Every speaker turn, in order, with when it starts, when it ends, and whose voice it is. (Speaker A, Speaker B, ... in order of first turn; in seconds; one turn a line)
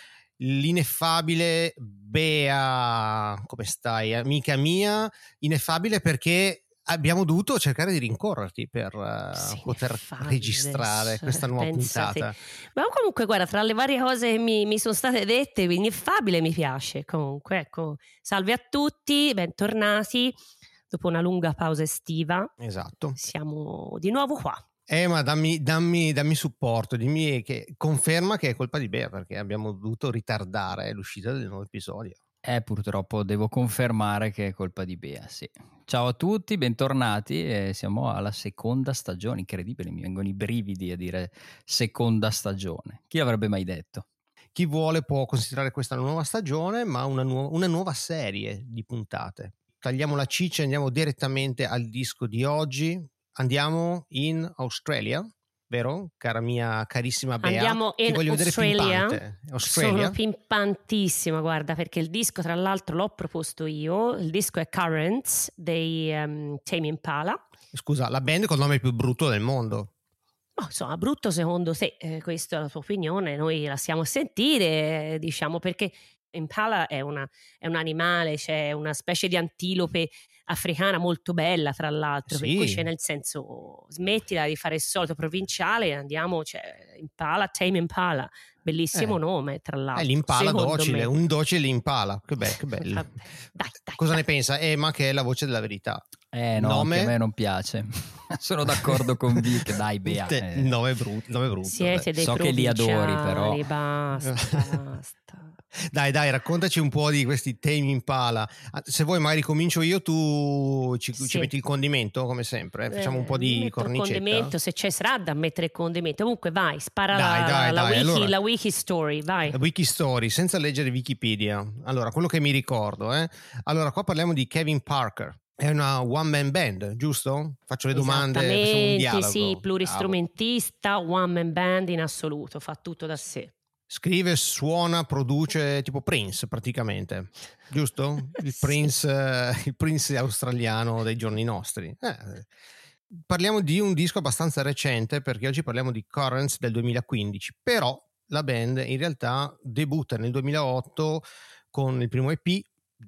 Speaker A: 0.4-12.4
Speaker B: 9.3-20.4
Speaker B: 20.9-22.5
Speaker A: 22.6-23.2
Speaker B: 23.2-24.6
Speaker A: 24.9-32.2
Speaker C: 32.5-44.0
Speaker A: 44.5-60.2
Speaker B: 57.4-67.4
Speaker A: 67.7-69.9
Speaker B: 70.6-91.1
Speaker A: 82.3-82.8
Speaker A: 89.9-93.1
Speaker B: 92.8-94.2
Speaker A: 94.0-96.1
Speaker C: 96.3-100.8
Speaker A: 96.6-97.1
Speaker A: 98.7-102.1
Speaker B: 101.7-105.6
Speaker C: 102.2-103.7
Speaker A: 104.2-104.8
Speaker A: 105.7-114.5
Speaker B: 111.2-111.5
Speaker B: 112.9-119.6
Speaker A: 117.1-118.3
Speaker A: 119.5-130.2
Speaker B: 127.9-133.5
Speaker A: 133.9-142.5
Speaker A: 143.1-152.7